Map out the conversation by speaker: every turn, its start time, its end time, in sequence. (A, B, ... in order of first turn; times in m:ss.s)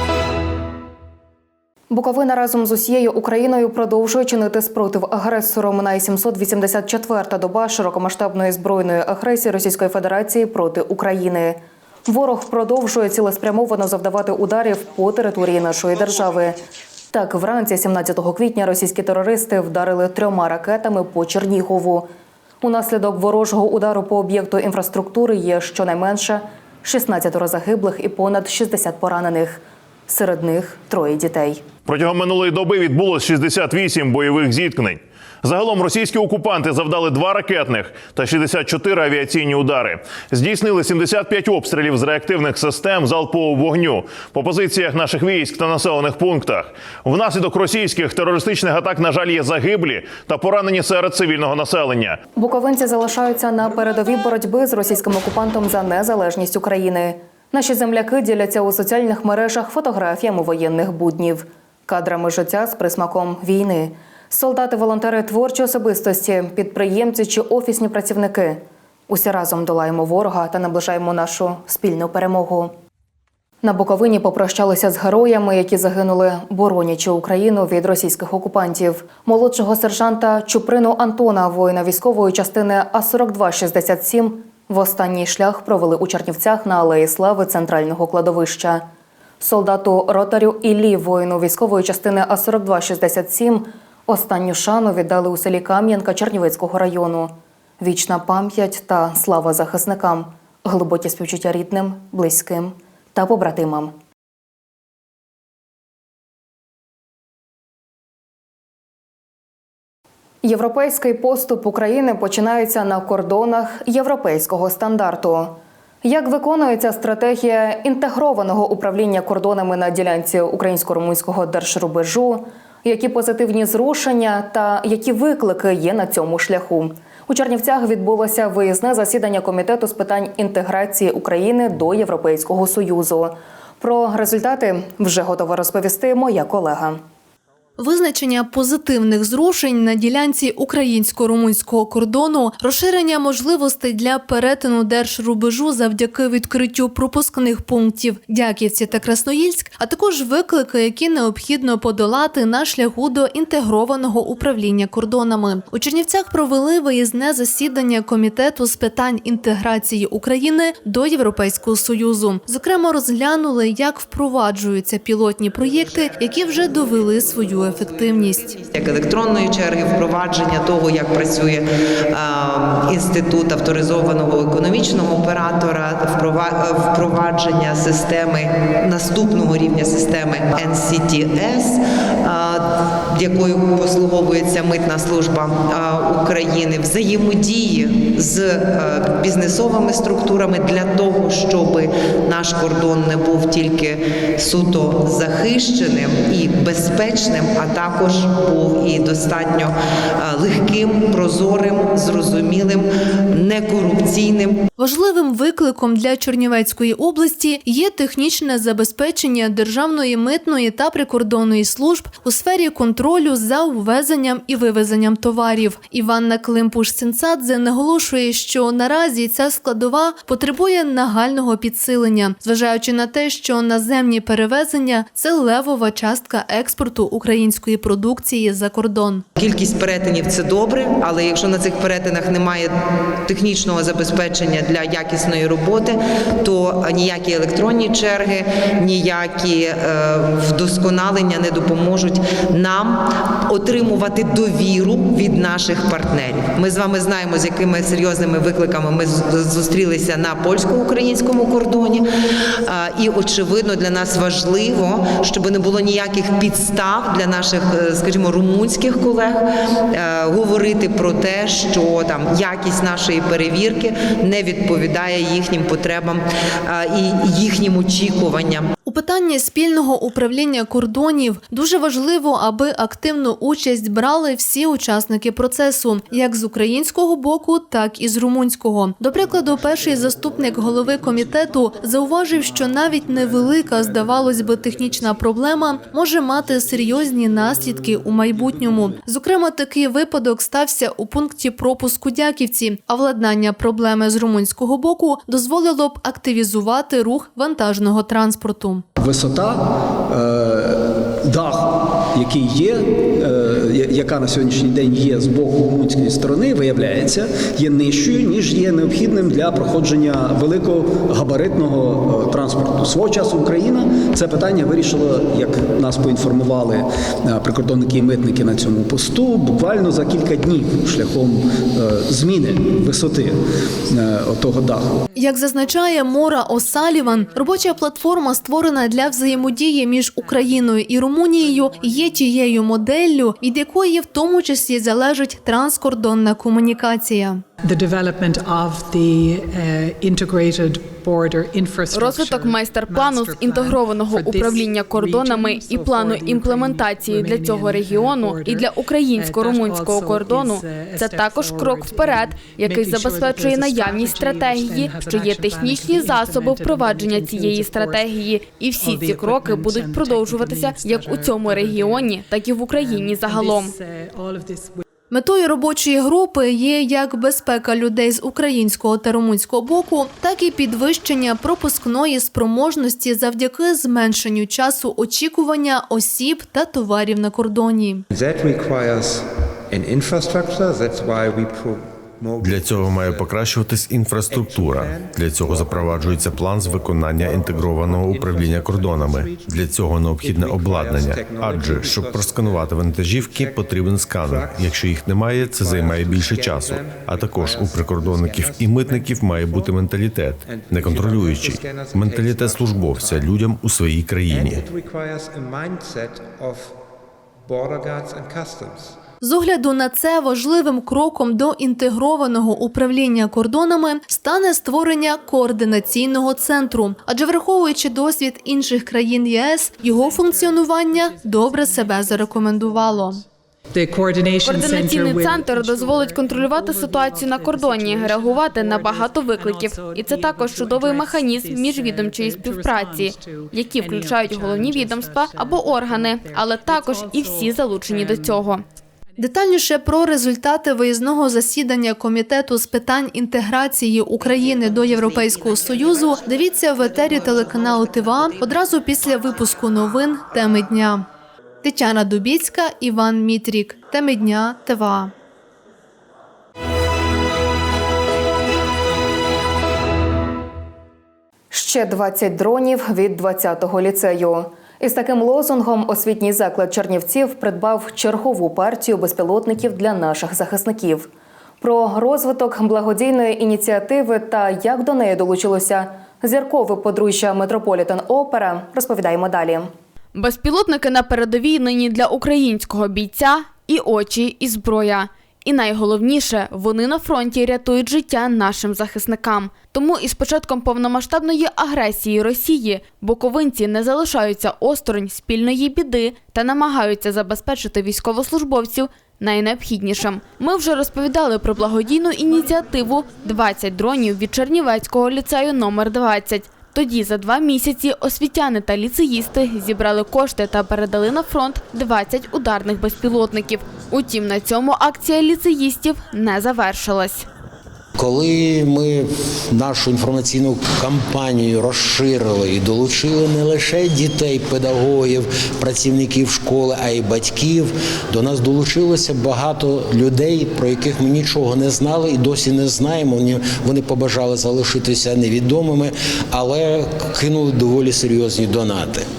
0:01.9-0:16.6 A
0:17.1-0:22.1 A
0:22.6-0:31.6 A
0:31.9-0:52.2 B
0:52.4-1:12.7 A
1:13.6-1:28.9 A
1:29.4-1:43.9 A
1:50.4-2:17.0 A
2:17.8-2:48.6 C
2:48.7-3:24.6 D
3:24.8-3:49.2 C
3:49.4-3:52.7 D
3:53.2-4:12.1 D
4:12.6-4:28.7 D
4:28.9-4:58.8 C
4:59.0-5:23.4 E
5:23.9-5:24.9 E
5:25.2-5:37.4 C
5:25.2-5:29.5 F
5:30.2-5:30.7 F
5:31.4-5:32.0 F
5:37.6-5:58.1 F
5:41.9-6:03.8 G
5:58.8-6:04.8 F
6:05.1-6:18.0 C
6:18.1-6:23.4 H
6:22.4-6:44.7 I
6:24.2-6:43.4 H
6:44.2-6:46.8 H
6:47.5-6:49.0 H
6:49.2-7:03.2 C
6:59.9-7:03.2 F
7:03.7-7:18.4 F
7:04.4-7:18.6 G
7:19.2-7:31.1 C
7:31.6-7:35.1 C
7:41.5-7:59.7 A
8:00.2-8:37.3 G
8:38.0-8:59.0 J